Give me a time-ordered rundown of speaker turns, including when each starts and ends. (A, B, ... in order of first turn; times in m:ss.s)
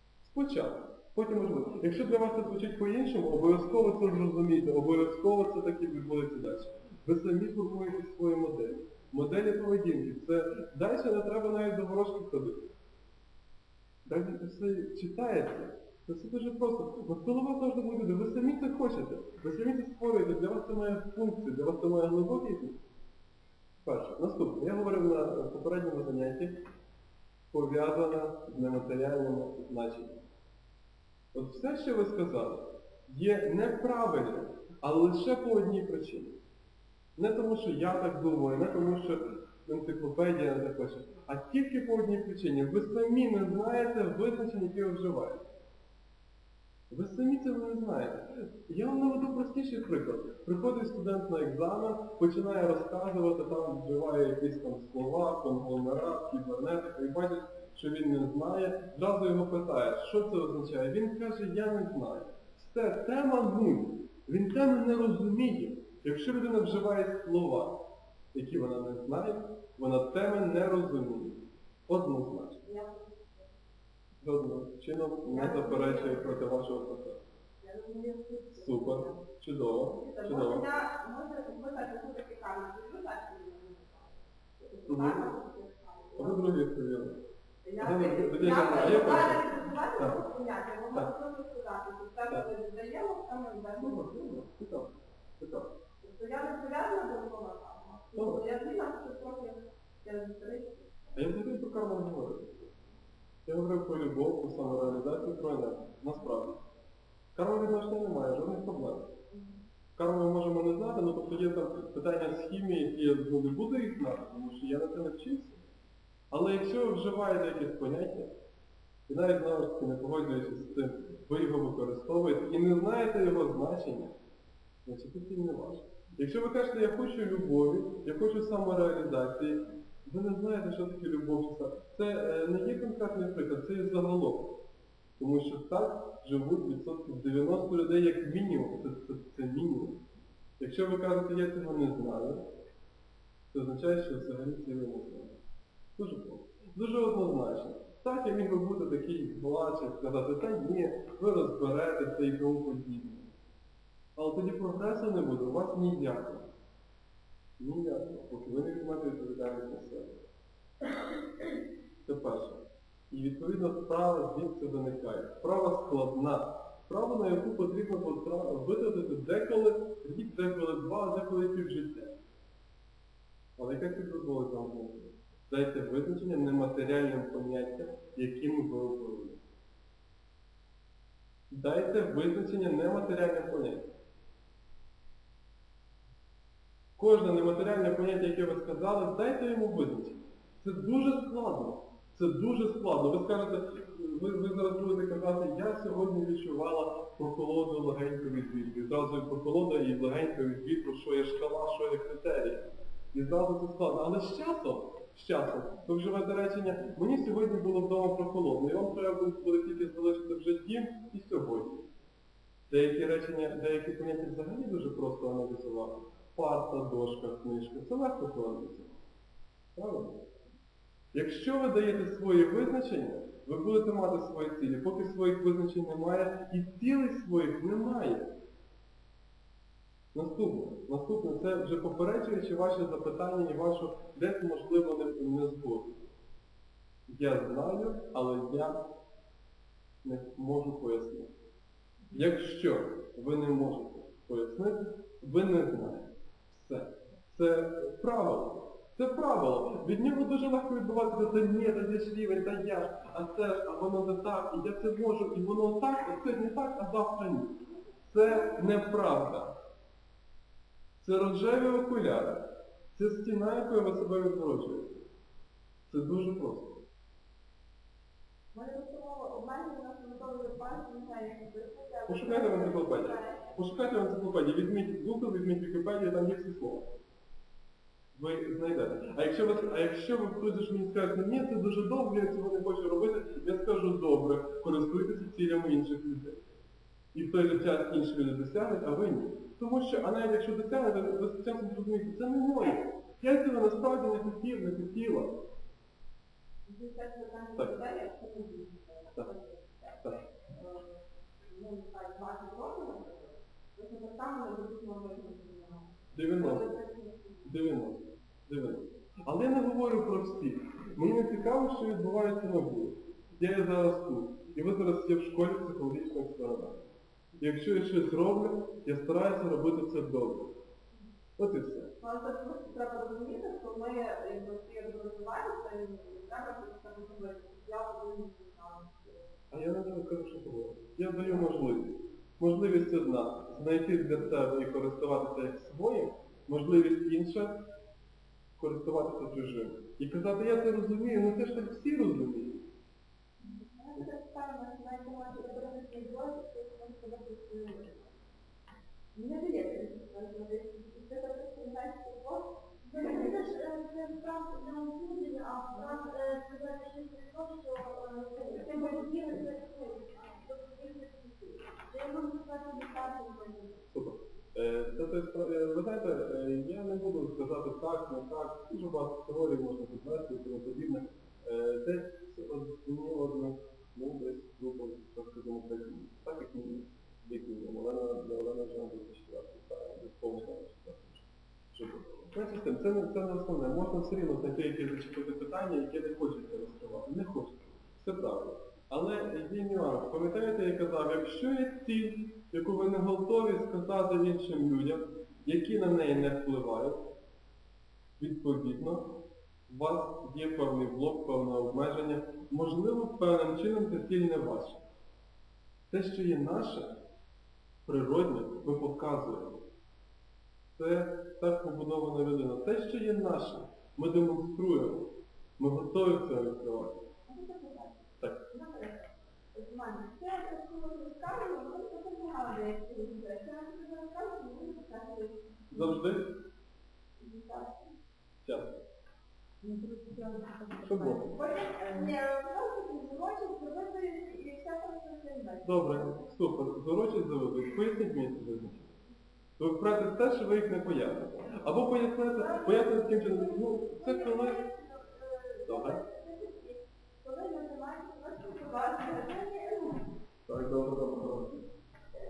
0:00.2-0:12.7 A
0:14.0-0:22.8 A
0:23.8-0:26.5 A
0:27.5-0:30.2 A
0:31.3-0:36.4 A
0:37.2-0:45.4 A
0:46.9-1:07.8 A
1:08.3-1:12.6 A
1:12.6-1:13.5 B
1:14.2-1:17.2 A
1:15.3-1:16.4 B
1:17.6-1:19.2 B
1:18.6-1:20.6 A
1:19.8-1:26.4 B
1:24.9-1:25.2 A
1:26.2-1:27.2 A
1:27.6-1:34.1 B
1:27.8-1:30.2 A
1:33.8-1:35.7 A
1:36.0-1:41.0 B
1:38.1-1:38.4 A
1:41.2-1:42.7 A
1:43.4-1:46.6 A
1:47.3-1:49.1 A
1:49.3-1:49.6 B
1:50.0-1:55.6 A
1:56.3-1:58.3 A
1:59.1-2:04.1 A
2:04.8-2:14.5 A
2:15.2-2:20.0 A
2:20.6-2:22.4 A
2:23.5-2:25.4 A
2:26.0-2:33.3 A
2:34.2-2:36.5 A
2:37.6-2:40.2 A
2:42.0-2:52.2 A
2:53.6-2:59.4 A
3:01.5-3:03.9 A
3:07.0-3:31.9 A
3:32.7-3:39.0 A
3:39.7-3:40.2 A
3:41.1-3:48.3 A
3:50.1-3:56.0 A
3:57.1-3:58.8 A
4:00.0-4:01.3 A
4:02.1-4:19.5 A
4:18.2-4:18.5 B
4:21.0-4:25.0 A
4:25.9-4:26.8 A
4:28.5-4:33.5 B
4:32.1-4:36.9 A
4:38.1-4:46.4 A
4:47.1-4:55.3 A
4:56.6-5:07.5 B
5:06.1-5:06.6 A
5:07.4-5:16.8 A
5:17.4-5:20.5 A
5:21.4-5:21.9 A
5:22.0-5:29.3 B
5:29.5-5:37.6 A
5:38.6-5:42.6 A
5:43.4-5:48.1 B
5:49.1-5:53.5 B
5:52.9-6:03.7 C
5:58.4-5:59.4 B
6:03.9-6:37.0 A
6:38.2-6:39.2 A
6:39.7-6:44.8 A
6:45.9-6:46.9 A
6:47.8-6:49.6 A
6:50.8-6:57.0 A
6:57.3-7:06.0 B
7:05.7-7:06.3 A
7:07.2-7:07.9 B
7:08.4-7:08.8 A
7:09.6-7:11.1 C
7:10.8-7:11.3 A
7:10.9-7:16.2 B
7:15.6-7:18.9 A
7:19.6-7:24.6 A
7:22.3-7:30.1 B
7:25.6-7:26.0 A
7:30.5-7:31.6 A